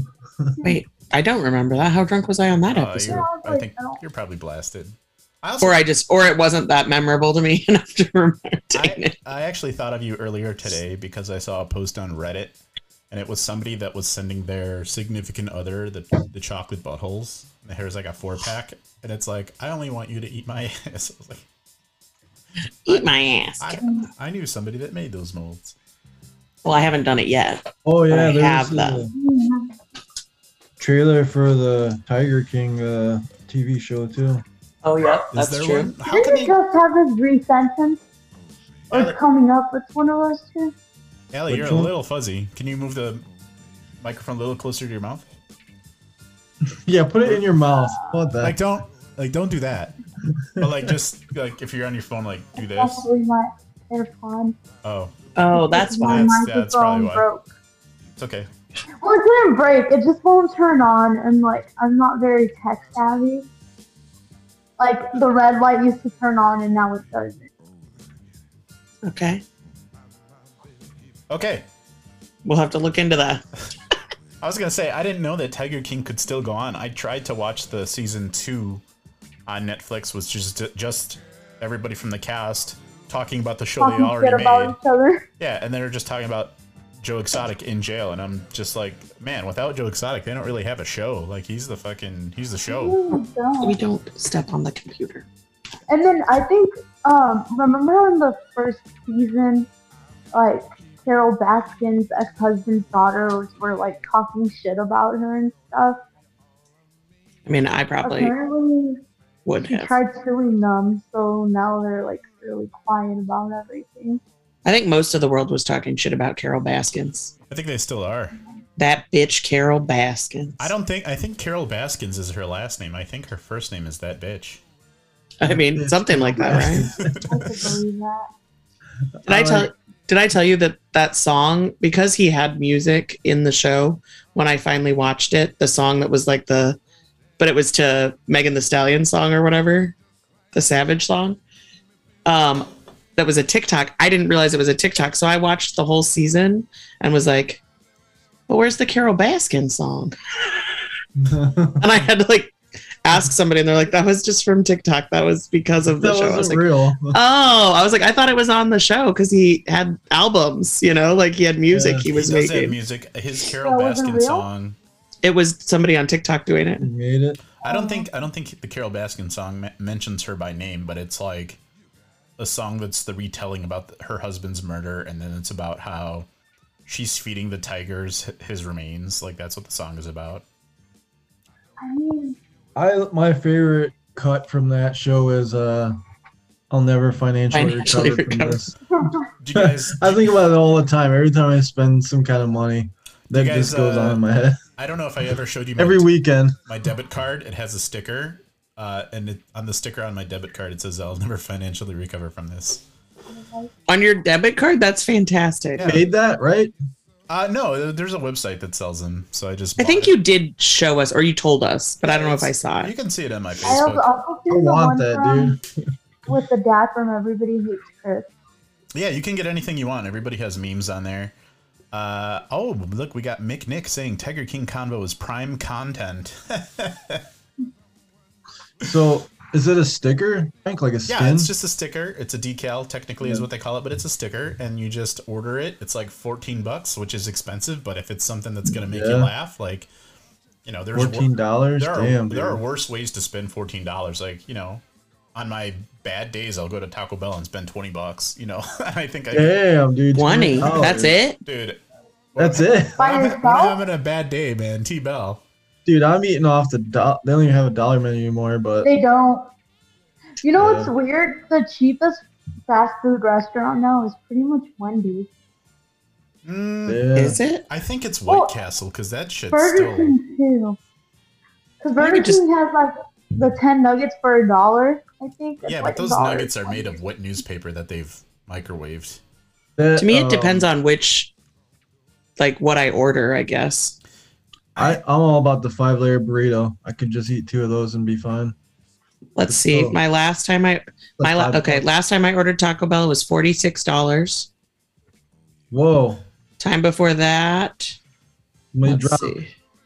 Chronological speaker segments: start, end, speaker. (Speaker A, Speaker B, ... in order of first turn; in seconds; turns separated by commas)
Speaker A: 0.6-3.2, Speaker B: 2.7-5.9, Speaker C: 3.1-4.0, Speaker A: 5.6-9.2, Speaker B: 8.7-12.6, Speaker B: 13.1-21.5, Speaker A: 22.9-23.8, Speaker B: 23.6-25.7, Speaker C: 23.8-24.1, Speaker A: 26.6-29.1, Speaker D: 27.9-29.1, Speaker C: 29.1-29.7, Speaker D: 30.8-34.4, Speaker A: 34.8-35.9, Speaker B: 35.3-36.6, Speaker C: 36.1-38.0, Speaker B: 38.9-39.2, Speaker C: 38.9-40.7, Speaker B: 41.3-43.2, Speaker D: 41.5-41.9, Speaker B: 44.0-45.3, Speaker D: 46.8-48.6, Speaker C: 47.8-48.1, Speaker B: 48.4-50.0, Speaker D: 50.4-50.7, Speaker B: 50.6-53.1, Speaker C: 52.6-54.6, Speaker B: 54.8-55.2, Speaker A: 55.4-56.4, Speaker C: 55.5-57.5, Speaker B: 56.0-57.3, Speaker B: 58.2-58.5, Speaker C: 59.0-63.5, Speaker C: 64.8-67.5, Speaker A: 69.0-69.4, Speaker B: 71.3-71.7, Speaker A: 72.5-73.4, Speaker B: 74.4-78.8, Speaker B: 79.5-84.8, Speaker C: 83.8-85.2, Speaker B: 85.4-93.0, Speaker C: 92.7-93.8, Speaker A: 93.6-95.3, Speaker C: 95.9-99.7, Speaker C: 100.3-106.0, Speaker A: 107.5-108.3, Speaker C: 108.0-109.0, Speaker A: 109.5-109.9, Speaker C: 109.7-114.2, Speaker A: 114.7-117.3, Speaker B: 117.5-118.4, Speaker A: 118.8-120.7, Speaker B: 120.6-124.6, Speaker A: 125.4-126.9, Speaker D: 125.5-127.3, Speaker B: 127.0-127.3, Speaker C: 127.3-128.3, Speaker D: 129.2-129.7, Speaker A: 129.3-136.8, Speaker A: 137.4-140.0, Speaker A: 140.5-141.4, Speaker A: 142.2-147.6, Speaker A: 148.5-150.1, Speaker D: 151.2-151.9, Speaker A: 151.8-162.8, Speaker D: 155.9-157.2, Speaker D: 161.7-162.1, Speaker B: 162.1-164.8, Speaker C: 163.6-164.5, Speaker A: 165.2-166.9, Speaker D: 166.8-167.4, Speaker B: 167.6-171.6, Speaker C: 167.6-168.1, Speaker B: 172.4-176.3, Speaker B: 176.9-180.4, Speaker C: 181.8-182.4, Speaker D: 182.8-186.0, Speaker D: 186.7-188.7, Speaker A: 187.5-188.7, Speaker C: 189.0-189.2, Speaker B: 189.4-190.4, Speaker D: 189.6-194.6, Speaker B: 193.3-194.2, Speaker B: 194.8-196.1, Speaker D: 195.8-196.6, Speaker B: 196.7-202.8, Speaker C: 203.3-203.7, Speaker A: 203.9-205.9, Speaker B: 205.8-206.1, Speaker D: 205.9-206.7, Speaker B: 207.3-210.1, Speaker A: 209.8-212.9, Speaker B: 212.0-214.1, Speaker C: 213.7-215.6, Speaker D: 214.5-215.6, Speaker C: 216.3-218.3, Speaker B: 218.9-221.3, Speaker B: 221.9-227.2, Speaker D: 228.8-231.5, Speaker B: 231.1-239.9, Speaker D: 238.7-239.3, Speaker B: 240.7-241.3, Speaker D: 240.9-242.6, Speaker B: 241.8-244.8, Speaker B: 245.3-249.6, Speaker D: 249.3-251.1, Speaker A: 250.2-251.4, Speaker B: 251.4-251.8, Speaker B: 252.3-255.4, Speaker D: 252.4-252.9, Speaker C: 253.0-253.8, Speaker D: 255.8-258.9, Speaker C: 258.8-259.5, Speaker C: 260.4-265.3, Speaker D: 260.6-260.9, Speaker B: 266.4-267.0, Speaker D: 266.9-267.4, Speaker A: 267.2-267.6, Speaker B: 267.7-270.2, Speaker C: 269.5-270.8, Speaker C: 271.8-277.0, Speaker A: 272.0-272.4, Speaker B: 275.6-279.2, Speaker D: 279.8-280.7, Speaker A: 280.0-281.3, Speaker A: 282.4-284.0, Speaker D: 284.8-288.6, Speaker A: 289.4-294.5, Speaker D: 289.5-290.0, Speaker D: 291.2-291.9, Speaker D: 295.7-296.2, Speaker A: 296.6-298.0, Speaker D: 298.7-299.4, Speaker A: 298.9-299.5